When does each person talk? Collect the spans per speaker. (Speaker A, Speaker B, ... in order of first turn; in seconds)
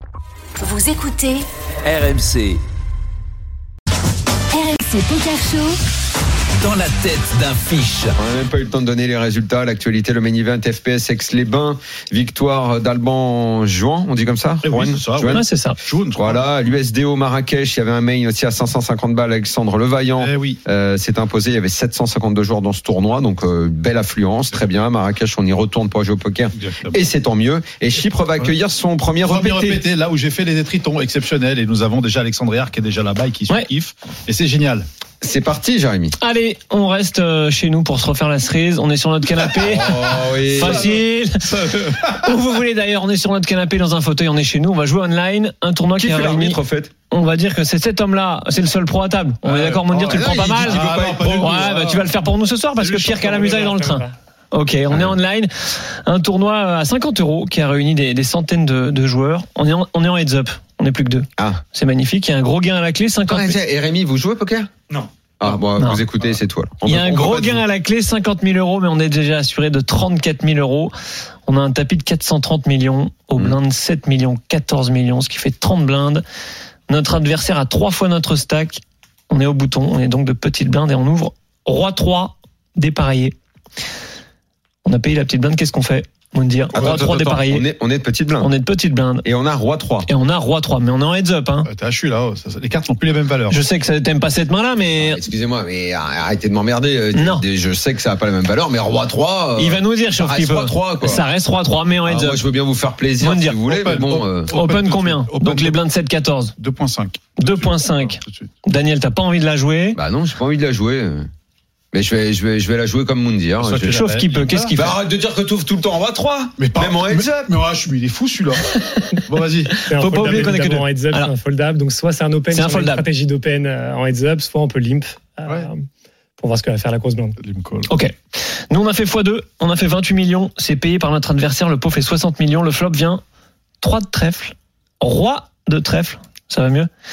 Speaker A: 0.6-1.5, 4.5-5.8
Speaker B: 1.8-2.6, 6.6-8.2
Speaker C: 8.2-15.4, 16.2-29.8, 35.2-36.1, 39.6-41.0, 46.0-46.9, 49.9-51.8, 54.9-55.1, 63.3-64.7, 65.4-67.6, 86.7-88.5, 89.2-90.1, 94.9-101.2, 102.0-104.5, 110.0-111.3, 111.9-114.0, 114.8-117.3
Speaker D: 14.6-16.6, 20.2-20.6, 26.5-27.0, 29.2-34.9, 49.5-52.1, 52.8-53.6, 91.7-93.7, 103.7-105.8, 106.6-108.5, 113.6-114.7, 116.6-118.7, 119.2-119.7, 127.4-127.9
Speaker E: 15.2-15.8, 36.2-63.6, 65.7-66.0, 66.8-70.9, 71.5-76.2, 76.9-83.4, 84.8-87.7, 88.3-89.3, 90.1-91.7, 93.5-95.2, 97.1-97.5, 99.6-102.5, 103.2-103.6, 104.5-106.5, 107.4-110.0, 113.9-115.0, 119.7-121.3, 122.5-123.0, 127.9-133.2, 133.8-136.9
Speaker F: 53.0-54.1, 119.8-125.9, 126.4-127.4